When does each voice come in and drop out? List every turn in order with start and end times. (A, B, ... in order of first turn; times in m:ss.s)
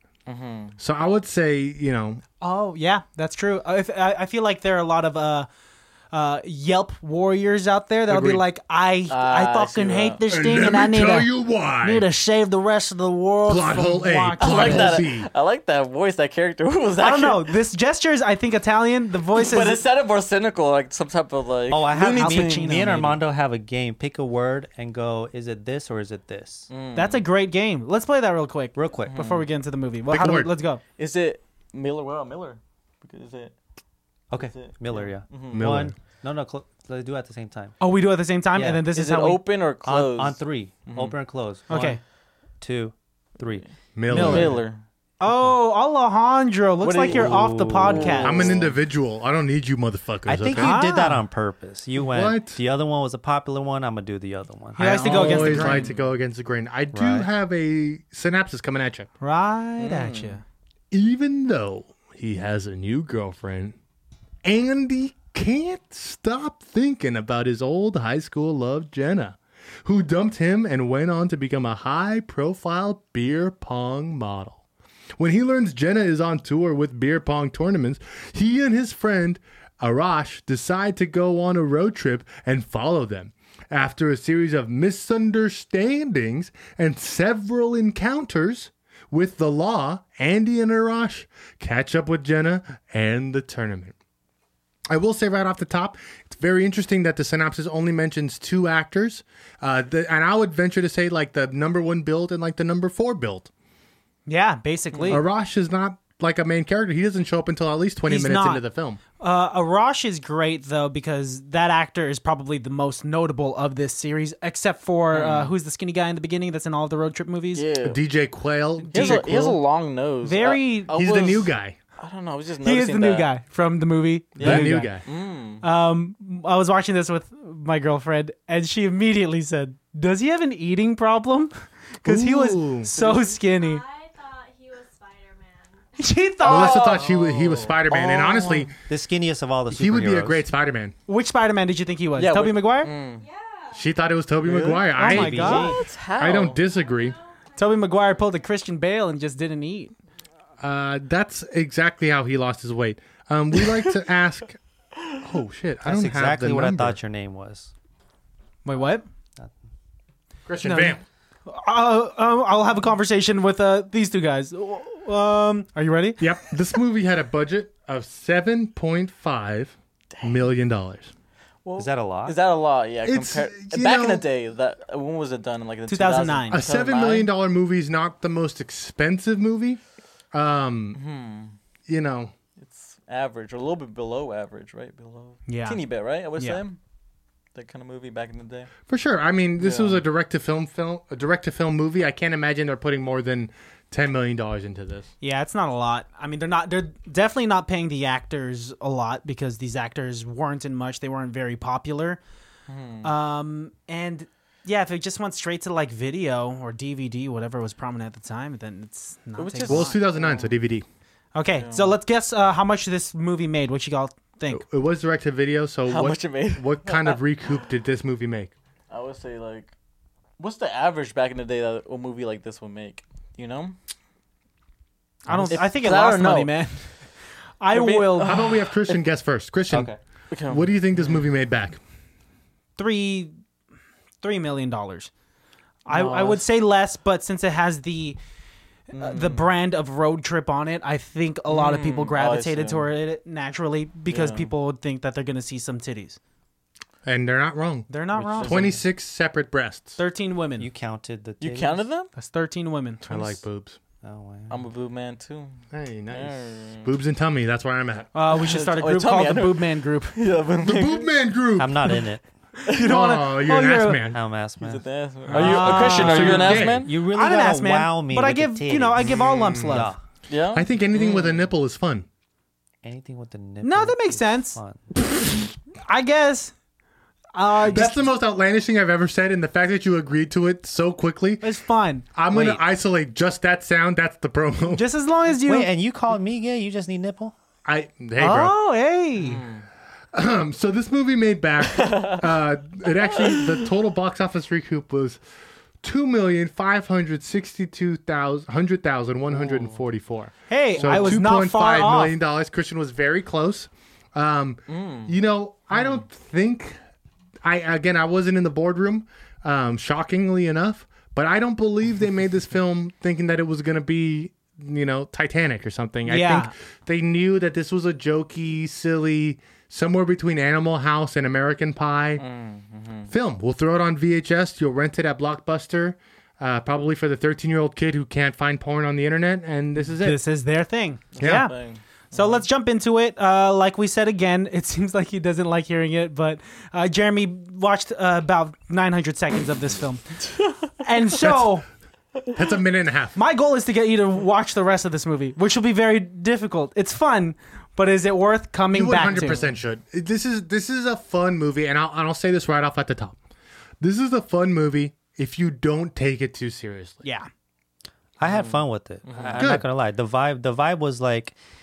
0:00.3-0:00.8 A
0:00.8-0:02.2 B
0:02.4-0:05.5 C
0:06.1-0:15.0 C
0:08.1-0:08.4 B
0:09.1-0:10.2 A
0:10.3-0:12.0 B
0:13.5-0:15.3 B
0:14.4-0:17.5 A
0:17.0-0:19.8 C
0:19.4-0:23.0 A
0:21.7-0:26.7 D
0:22.1-0:23.2 C
0:26.7-0:27.2 A
0:27.0-0:30.8 C
0:28.8-0:29.2 D
0:29.1-0:29.5 A
0:30.1-0:30.5 B
0:31.0-0:33.5 A
0:34.3-0:37.8 D
0:34.4-0:35.8 A
0:35.5-0:36.0 B
0:37.8-0:39.4 C
0:38.5-0:38.8 D
0:38.9-0:41.1 A
0:39.8-0:42.0 D
0:41.7-0:42.0 C
0:42.6-0:44.6 D
0:44.0-0:44.6 B
0:44.1-0:44.8 A
0:45.2-0:48.5 C
0:45.2-0:45.5 D
0:46.8-0:48.7 A
0:47.1-0:48.7 D
0:48.2-0:50.7 B
0:50.2-0:55.7 D
0:50.5-0:51.2 C
0:52.0-0:52.6 B
0:54.8-0:55.9 C
0:54.8-0:59.1 B
0:54.9-0:56.1 A
0:56.9-0:57.3 D
0:59.2-1:00.4 C
0:59.8-1:00.4 A
1:00.9-1:03.8 B
1:04.4-1:14.6 B
1:15.2-1:33.9 B
1:34.9-1:43.5 B
1:44.3-1:45.2 C
1:44.9-1:45.2 A
1:45.1-1:49.0 B
1:48.1-1:48.6 C
1:49.2-1:57.6 C
1:55.1-1:55.5 A
1:57.5-1:58.0 A
1:57.8-1:59.5 B
1:58.8-1:59.6 C
1:58.9-2:03.3 A
2:00.2-2:00.9 C
2:00.9-2:01.8 B
2:02.6-2:05.0 C
2:04.4-2:05.6 A
2:04.4-2:05.0 B
2:05.6-2:13.8 C
2:12.0-2:12.9 B
2:12.9-2:13.4 A
2:13.4-2:17.0 E
2:16.0-2:17.0 C
2:16.4-2:18.7 B
2:16.4-2:18.0 A
2:17.9-2:20.5 D
2:19.7-2:21.0 B
2:21.1-2:22.9 C
2:22.2-2:23.2 A
2:23.1-2:23.9 E
2:23.8-2:27.2 B
2:24.4-2:26.6 A
2:24.9-2:25.8 C
2:25.0-2:25.8 D
2:26.7-2:28.5 E
2:27.6-2:29.9 C
2:30.6-2:34.6 B
2:35.2-2:37.0 B
2:35.8-2:37.7 D
2:38.6-2:39.0 C
2:40.5-2:41.0 B
2:40.6-2:46.2 C
2:46.2-2:51.1 B
2:50.2-2:50.4 A
2:51.6-2:57.3 A
2:51.8-2:52.4 D
2:53.0-2:54.2 B
2:55.9-2:56.6 C
2:56.5-2:59.8 B
3:00.3-3:01.0 B
3:01.0-3:01.6 A
3:01.9-3:02.3 B
3:02.6-3:06.8 A
3:05.5-3:05.8 C
3:07.5-3:08.7 A
3:08.9-3:15.1 B
3:09.6-3:10.0 A
3:15.2-3:22.2 C
3:22.7-3:23.1 A
3:23.0-3:30.0 C
3:29.4-3:30.5 A
3:29.7-3:30.8 B
3:31.3-3:34.6 C
3:31.6-3:32.0 A
3:34.5-3:38.5 B
3:35.9-3:37.2 A
3:38.9-3:39.7 A
3:40.4-3:43.8 A
3:45.2-3:47.0 C
3:45.5-3:46.5 A
3:47.6-3:48.5 C
3:47.7-3:49.0 A
3:48.2-3:49.9 B
3:49.7-3:50.0 D
3:50.3-3:51.2 A
3:50.5-3:51.8 B
3:52.8-3:53.3 C
3:54.2-3:55.1 C
3:55.8-3:58.2 C
3:55.9-3:56.5 A
3:58.9-4:06.2 C
3:58.9-3:59.5 A
4:01.5-4:02.8 A
4:04.1-4:04.5 A
4:07.0-4:07.9 B
4:07.9-4:08.6 C
4:08.2-4:08.7 D
4:08.4-4:08.8 A
4:08.4-4:10.0 B
4:10.0-4:10.7 C
4:10.6-4:11.8 D
4:11.4-4:12.1 A
4:12.2-4:13.4 C
4:13.0-4:13.8 B
4:14.0-4:14.7 D
4:14.5-4:16.9 A
4:15.7-4:18.1 B
4:18.1-4:20.2 C
4:18.3-4:21.2 A
4:20.6-4:22.0 B
4:21.6-4:22.2 D
4:22.6-4:24.0 C
4:22.7-4:22.9 A
4:22.8-4:24.2 B
4:24.1-4:24.8 D
4:24.6-4:26.9 A
4:25.3-4:29.9 C
4:25.3-4:26.9 B
4:25.6-4:29.1 D
4:29.0-4:29.8 B
4:29.6-4:30.0 D
4:30.3-4:31.5 A
4:30.5-4:32.0 B
4:32.8-4:34.8 D
4:33.6-4:34.6 C
4:35.8-4:36.5 C
4:37.3-4:38.1 C
4:37.6-4:41.5 B
4:41.4-4:42.0 C
4:42.1-4:44.8 B
4:42.3-4:42.6 D
4:44.7-4:45.7 C
4:45.3-4:47.3 D
4:47.6-4:48.5 B
4:48.2-4:49.4 C
4:49.2-4:49.6 A
4:50.1-4:55.2 B
4:51.7-4:52.2 A
4:53.2-4:53.7 A
4:55.8-5:06.8 B
4:59.3-4:59.8 A
5:00.5-5:02.2 C
5:00.8-5:01.2 A
5:04.7-5:05.2 A
5:05.8-5:06.0 A
5:07.4-5:22.2 B
5:16.0-5:16.5 C
5:22.2-5:23.1 A
5:23.1-5:30.2 B
5:30.0-5:31.5 C
5:31.2-5:32.4 A
5:31.2-5:31.5 B
5:32.1-5:41.7 C
5:41.2-5:41.6 B
5:42.3-5:43.2 B
5:43.2-5:49.5 C
5:48.7-5:53.2 B
5:53.8-5:57.0 B
5:57.0-5:57.3 C
5:58.2-6:01.4 D
5:58.3-5:59.4 A
5:59.4-5:59.6 B